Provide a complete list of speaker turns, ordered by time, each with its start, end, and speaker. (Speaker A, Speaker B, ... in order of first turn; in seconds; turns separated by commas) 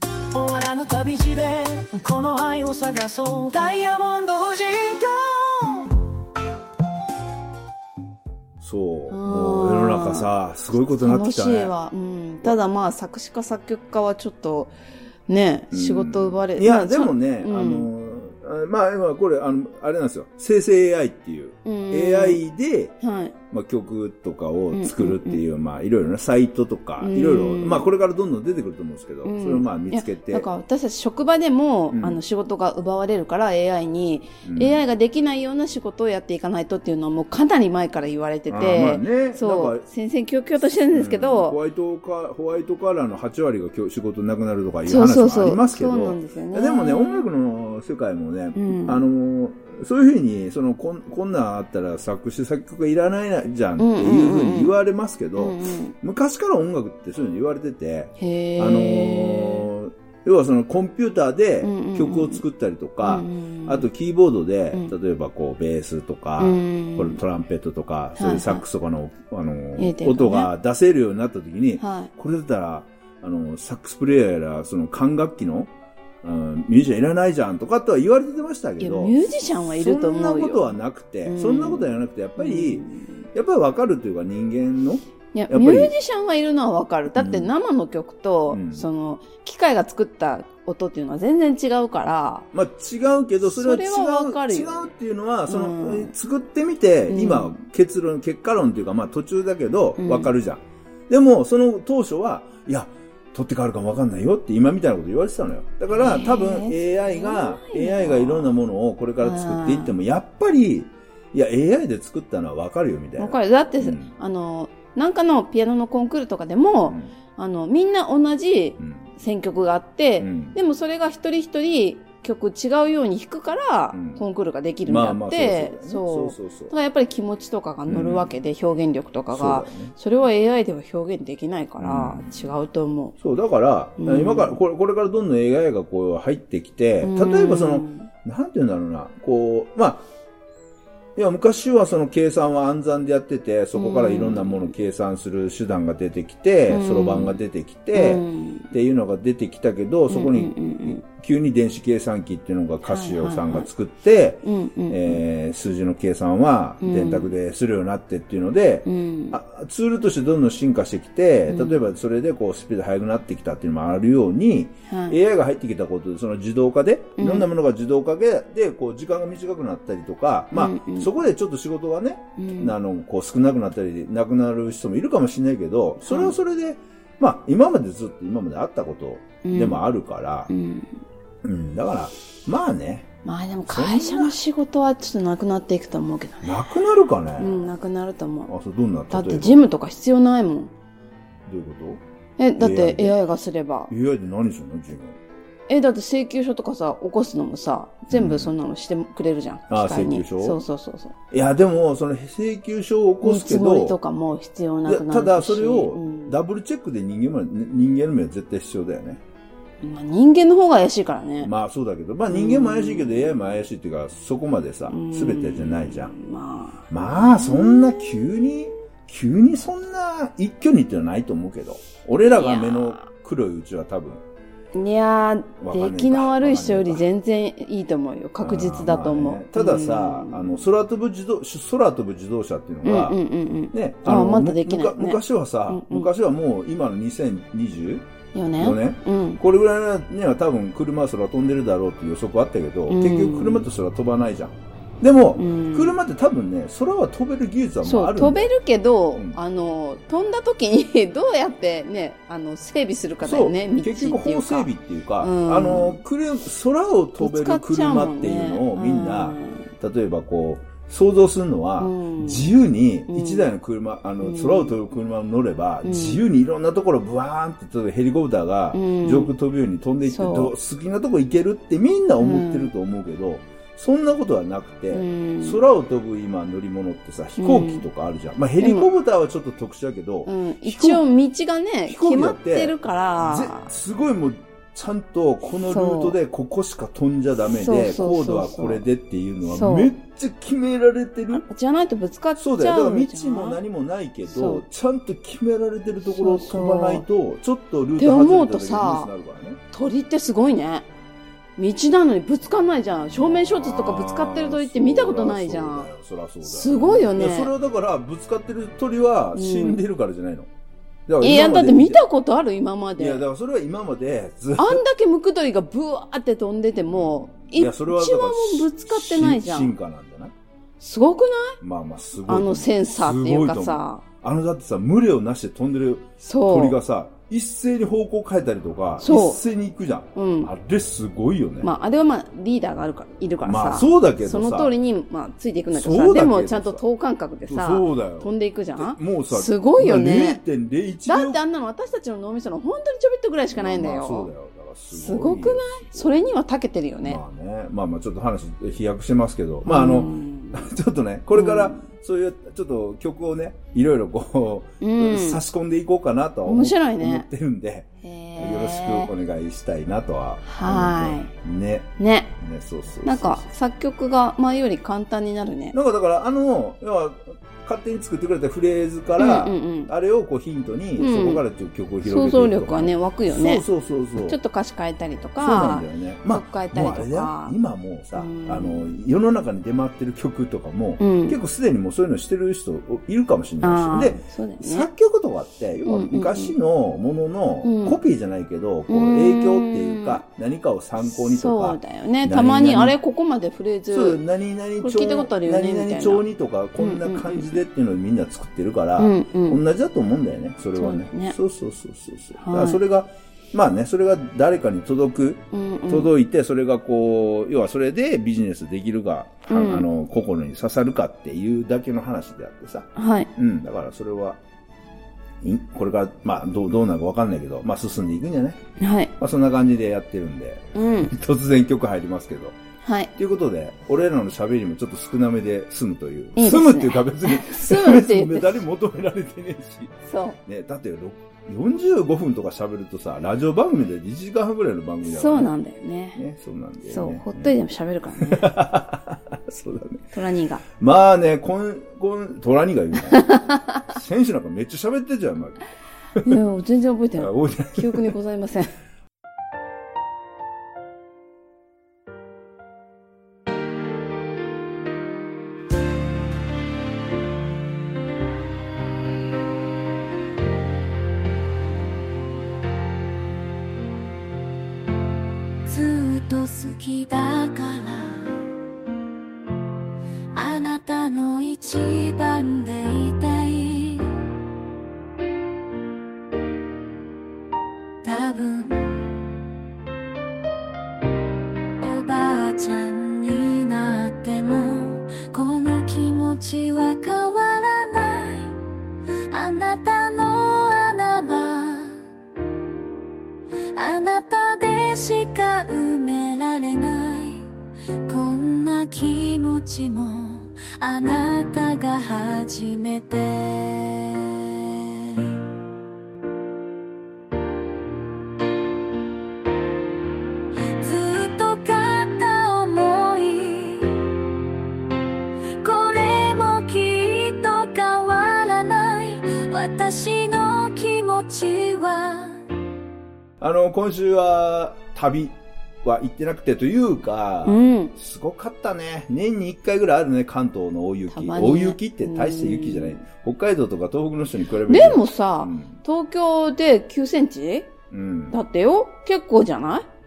Speaker A: 0.3-6.0, Speaker B: 8.6-11.7, Speaker C: 9.1-14.7, Speaker C: 15.3-17.9, Speaker B: 15.7-22.9, Speaker C: 21.6-22.4, Speaker C: 23.0-23.4, Speaker B: 23.5-30.5, Speaker C: 24.7-25.4, Speaker C: 27.0-27.9, Speaker C: 29.2-41.6, Speaker B: 31.9-32.2, Speaker B: 34.4-34.8, Speaker B: 38.5-39.9, Speaker B: 40.9-75.7, Speaker C: 44.9-47.3, Speaker C: 48.5-49.0, Speaker C: 53.8-54.7, Speaker C: 55.4-56.0, Speaker C: 58.2-59.7, Speaker C: 61.6-62.4, Speaker C: 63.0-63.9, Speaker C: 66.4-67.2, Speaker C: 68.2-68.6, Speaker C: 69.8-70.5, Speaker C: 71.8-72.1, Speaker B: 76.2-85.9, Speaker C: 78.8-83.1, Speaker C: 85.3-92.5, Speaker B: 87.1-87.5, Speaker B: 88.5-88.8, Speaker B: 92.5-114.1, Speaker C: 93.4-94.9, Speaker C: 95.5-96.1, Speaker C: 97.1-97.6, Speaker C: 100.0-100.3, Speaker C: 105.9-108.6, Speaker C: 109.2-109.9, Speaker C: 113.2-133.2, Speaker B: 118.8-119.1, Speaker B: 120.2-120.6, Speaker B: 123.9-124.2, Speaker B: 124.9-126.7, Speaker B: 127.9-128.3, Speaker B: 129.3-129.9, Speaker B: 131.8-132.5, Speaker B: 133.2-140.1, Speaker C: 134.0-134.6, Speaker C: 137.0-138.1, Speaker B: 141.2-180.5, Speaker C: 143.8-144.7, Speaker C: 146.7-147.4, Speaker C: 147.9-148.7, Speaker C: 150.1-151.0, Speaker C: 152.8-153.7, Speaker C: 154.4-155.2, Speaker C: 156.8-157.3, Speaker C: 158.9-159.4, Speaker C: 161.5-161.8, Speaker C: 164.9-165.2, Speaker C: 167.2-167.5, Speaker C: 170.5-171.1, Speaker C: 172.4-172.7, Speaker C: 176.0-176.3, Speaker C: 179.4-179.8, Speaker C: 180.5-180.9, Speaker B: 181.4-183.1, Speaker C: 183.2-186.6, Speaker B: 183.7-184.3, Speaker B: 186.4-187.7, Speaker C: 187.4-188.5, Speaker B: 188.5-189.6, Speaker C: 189.1-190.7, Speaker B: 191.5-192.0, Speaker C: 192.4-193.9, Speaker B: 192.6-193.2, Speaker B: 193.9-195.2, Speaker C: 195.7-201.2, Speaker B: 198.1-198.5, Speaker B: 199.7-200.6, Speaker B: 201.3-204.0, Speaker C: 203.2-206.4, Speaker B: 204.9-209.2, Speaker C: 209.8-211.5, Speaker B: 211.4-216.2, Speaker C: 212.3-213.6, Speaker C: 214.9-218.2, Speaker B: 216.9-224.2, Speaker C: 222.2-223.1, Speaker C: 224.7-230.6, Speaker B: 225.6-227.1, Speaker B: 228.4-233.2, Speaker C: 232.8-236.1, Speaker B: 233.7-238.1, Speaker C: 238.3-239.4, Speaker B: 238.6-248.5, Speaker C: 242.9-243.7, Speaker C: 245.4-246.0, Speaker C: 247.8-256.0, Speaker B: 253.2-281.0, Speaker C: 257.2-259.7, Speaker C: 261.8-262.5, Speaker C: 263.1-263.5, Speaker C: 264.2-264.8, Speaker C: 265.8-266.2, Speaker C: 268.7-269.3, Speaker C: 270.1-270.5, Speaker C: 272.2-272.7, Speaker C: 274.9-275.6, Speaker C: 277.4-277.9, Speaker C: 278.6-278.9, Speaker C: 280.3-283.7, Speaker B: 281.9-291.4, Speaker C: 285.7-286.2, Speaker C: 287.5-288.9, Speaker C: 289.4-289.9, Speaker C: 291.3-293.6, Speaker B: 292.4-299.6, Speaker C: 294.3-294.6, Speaker C: 296.1-297.0, Speaker C: 298.0-299.1, Speaker C: 299.7-300.9, Speaker C: 301.6-305.9, Speaker B: 303.1-310.5, Speaker C: 306.4-307.5, Speaker C: 309.4-309.8, Speaker B: 311.1-312.0, Speaker C: 311.2-313.2, Speaker B: 313.0-314.8, Speaker C: 314.6-319.8, Speaker B: 316.9-320.3, Speaker C: 320.8-321.6, Speaker B: 321.6-331.7, Speaker C: 322.2-324.0, Speaker C: 326.2-326.8, Speaker C: 329.0-329.4, Speaker C: 330.1-330.5, Speaker C: 331.6-340.4, Speaker B: 333.4-334.7, Speaker B: 335.7-336.8, Speaker B: 337.5-341.4, Speaker C: 341.1-344.3, Speaker B: 343.5-346.2, Speaker C: 344.9-347.2, Speaker B: 347.0-363.5, Speaker C: 349.6-350.7, Speaker C: 351.3-351.9, Speaker C: 354.8-355.4, Speaker C: 356.5-357.3, Speaker C: 358.0-359.1, Speaker C: 360.4-361.3, Speaker C: 362.0-362.3, Speaker C: 363.0-365.8, Speaker B: 365.7-374.4, Speaker C: 369.2-369.9, Speaker C: 371.0-371.4, Speaker C: 372.0-373.6, Speaker C: 374.3-377.6, Speaker B: 375.4-393.0, Speaker C: 378.2-378.9, Speaker C: 381.0-381.4, Speaker C: 383.6-384.9, Speaker C: 385.9-386.6, Speaker C: 387.6-388.0, Speaker C: 388.9-390.2, Speaker C: 391.0-394.2, Speaker B: 393.9-414.4, Speaker C: 394.8-396.2, Speaker C: 396.8-397.6, Speaker C: 399.0-399.6, Speaker C: 400.8-401.4, Speaker C: 402.4-402.8, Speaker C: 405.5-406.1, Speaker C: 409.5-409.9, Speaker C: 413.0-413.3, Speaker B: 415.4-418.6, Speaker C: 418.8-419.1, Speaker B: 419.2-422.6, Speaker C: 420.8-421.1, Speaker C: 422.8-423.1, Speaker B: 423.2-435.5, Speaker C: 426.4-428.6, Speaker C: 430.1-430.4, Speaker C: 435.1-436.2, Speaker B: 436.2-437.5, Speaker C: 436.9-438.6, Speaker B: 438.2-440.1, Speaker C: 440.1-440.6, Speaker B: 440.7-443.3, Speaker C: 443.1-443.8, Speaker B: 443.9-445.6, Speaker C: 446.2-448.7, Speaker B: 447.2-448.1, Speaker D: 465.6-468.4, Speaker D: 470.3-474.2, Speaker D: 478.0-479.1, Speaker D: 481.8-488.6, Speaker D: 489.3-492.0, Speaker D: 493.8-497.5, Speaker D: 498.1-505.3, Speaker D: 510.8-514.0, Speaker D: 515.6-522.4, Speaker B: 523.4-535.8, Speaker C: 527.5-527.9, Speaker C: 531.1-533.0, Speaker C: 534.7-537.7, Speaker B: 537.9-538.4, Speaker C: 538.3-539.9